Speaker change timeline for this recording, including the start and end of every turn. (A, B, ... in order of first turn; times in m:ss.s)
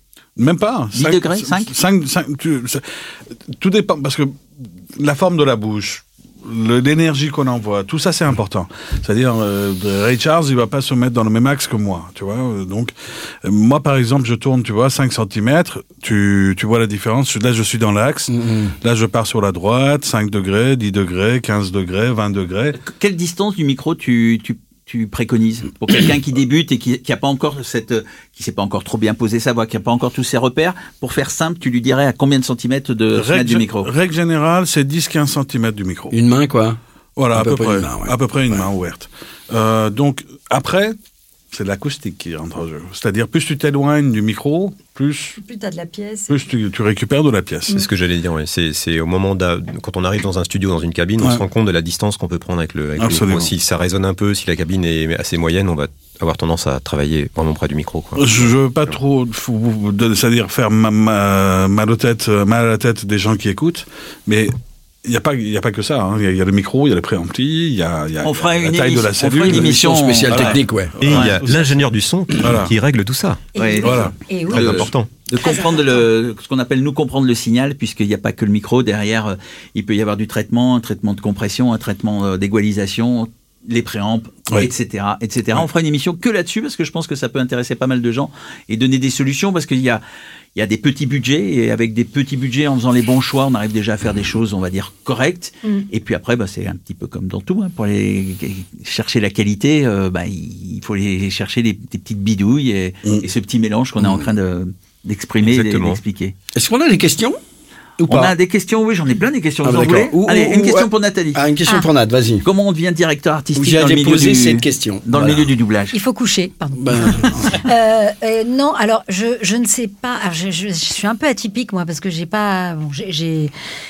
0:00.4-0:02.8 A
0:00.9-0:01.7 B
0:03.5-0:04.4 A
0:05.0-0:22.8 A
0:18.3-0:18.7 C
0:22.8-0:33.9 B
0:33.1-0:36.1 A
0:36.1-0:36.8 C
0:37.2-0:40.9 A
0:37.3-0:38.6 C
0:41.5-0:45.4 A
0:45.4-0:46.3 D
0:46.3-0:47.8 A
0:47.7-0:58.9 E
0:53.0-0:53.5 A
0:58.2-1:04.5 A
1:05.0-1:11.8 A
1:08.2-1:11.4 B
1:09.5-1:10.9 C
1:11.0-1:13.4 E
1:12.4-1:12.7 A
1:13.5-1:14.8 D
1:13.6-1:30.0 B
1:13.8-1:14.1 A
1:14.5-1:15.1 E
1:15.4-1:16.0 D
1:30.5-1:46.3 B
1:44.0-1:44.3 C
1:45.4-1:46.0 E
1:46.5-1:47.4 C
1:48.0-1:48.3 C
1:48.1-1:51.4 B
1:49.6-1:52.4 C
1:52.4-1:56.0 B
1:53.6-1:55.5 C
1:55.9-2:03.5 D
1:56.8-1:57.6 C